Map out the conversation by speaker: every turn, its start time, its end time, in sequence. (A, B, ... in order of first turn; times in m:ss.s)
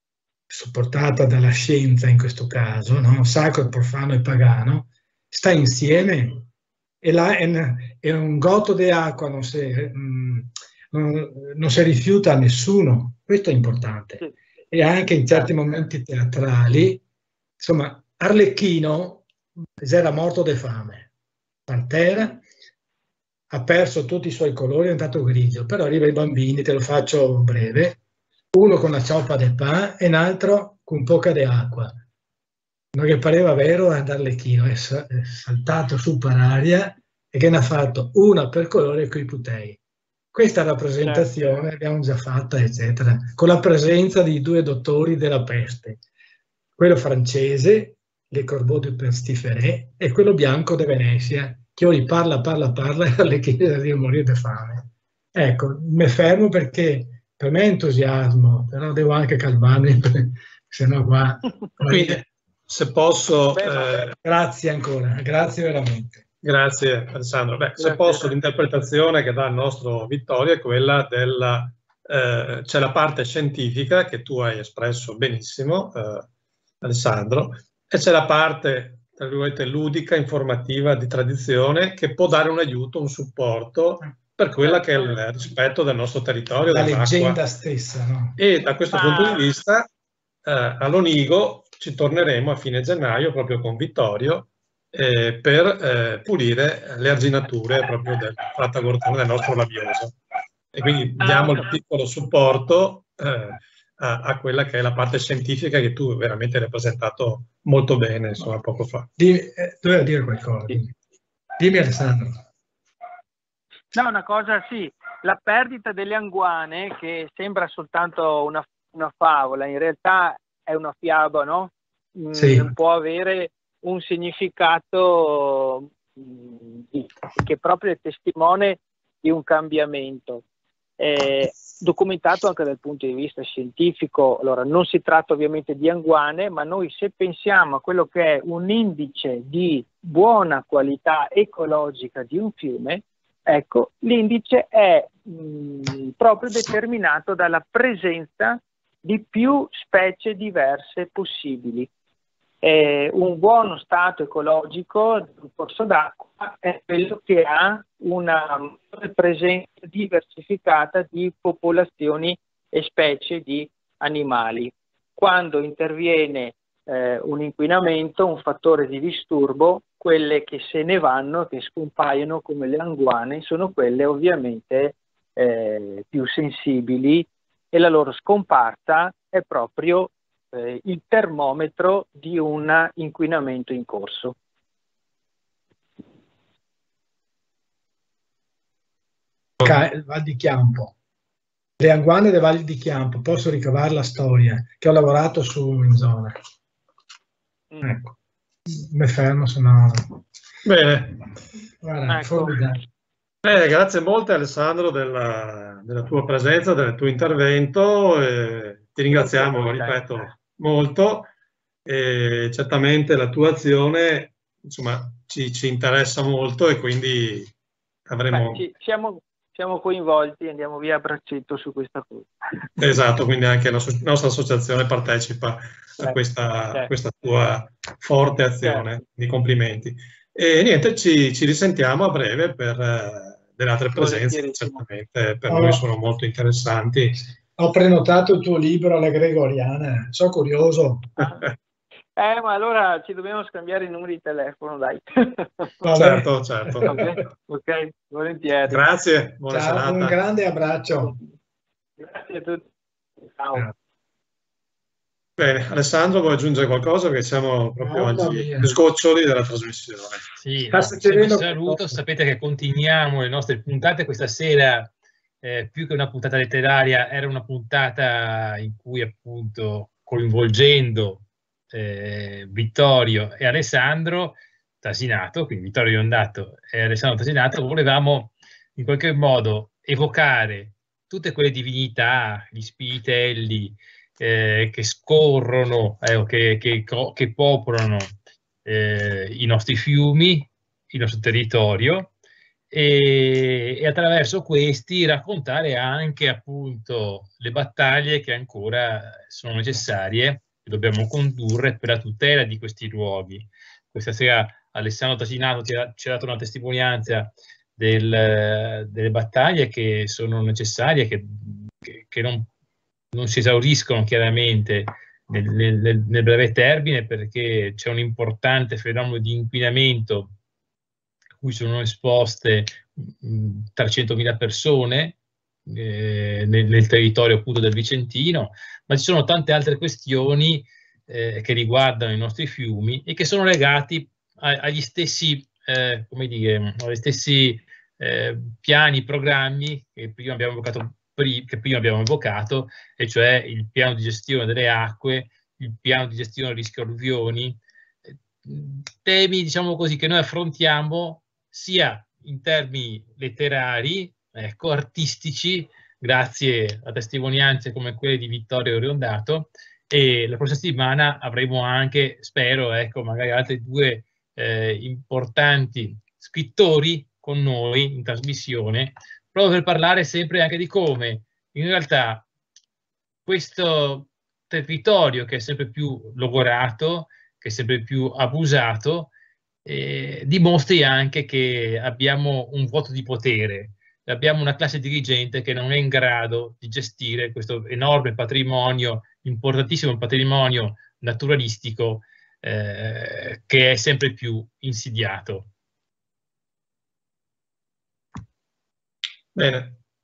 0:00.5-0:06.5 A
0:07.0-0:17.0 A
0:15.3-0:15.6 B
0:17.6-0:19.3 A
0:19.8-0:21.1 A
0:21.7-0:22.4 A
0:23.5-0:28.0 A
0:28.5-0:31.9 A
0:32.9-0:39.8 A
0:40.3-0:46.0 A
0:41.0-0:41.3 B
0:46.8-1:02.2 A
1:01.9-1:04.2 C
1:03.5-1:04.1 B
1:04.2-1:06.2 A
1:06.4-1:16.3 C
1:07.8-1:08.3 B
1:16.8-1:27.4 C
1:24.6-1:25.2 B
1:26.7-1:28.4 A
1:28.4-1:29.9 C
1:28.9-1:29.4 B
1:30.4-1:40.2 C
1:40.7-1:49.1 C
1:41.2-1:41.7 B
1:49.2-1:50.9 A
1:51.6-1:52.4 A
1:53.9-2:10.4 B
2:02.3-2:02.7 A
2:11.0-2:31.9 B
2:32.6-3:04.4 B
3:09.6-3:11.0 A
3:11.8-3:16.4 A
3:17.7-3:18.0 B
3:17.8-3:18.2 A
3:18.7-3:20.2 A
3:20.6-3:21.3 C
3:21.8-3:22.8 A
3:22.1-3:22.8 B
3:23.4-3:31.3 C
3:29.1-3:30.0 B
3:31.8-3:37.5 C
3:38.1-3:38.6 C
3:38.3-3:42.6 B
3:42.8-3:57.3 C
3:48.6-3:49.0 B
3:54.0-3:54.8 B
3:55.5-3:55.8 A
3:57.6-4:01.3 A
4:02.2-4:05.8 B
4:05.8-4:07.0 A
4:05.9-4:07.0 C
4:06.8-4:08.8 B
4:08.7-4:10.2 C
4:09.5-4:11.2 A
4:11.0-4:11.3 B
4:12.0-4:12.6 B
4:13.3-4:13.7 B
4:15.4-4:20.4 C
4:17.8-4:18.8 A
4:20.4-4:24.9 D
4:20.7-4:22.0 A
4:25.4-4:52.1 D
4:52.7-5:12.5 D
5:13.1-5:20.4 D
5:21.4-5:47.6 D
5:48.4-6:12.3 D
6:13.3-6:19.1 D
6:19.6-6:35.5 D
6:39.4-6:39.8 C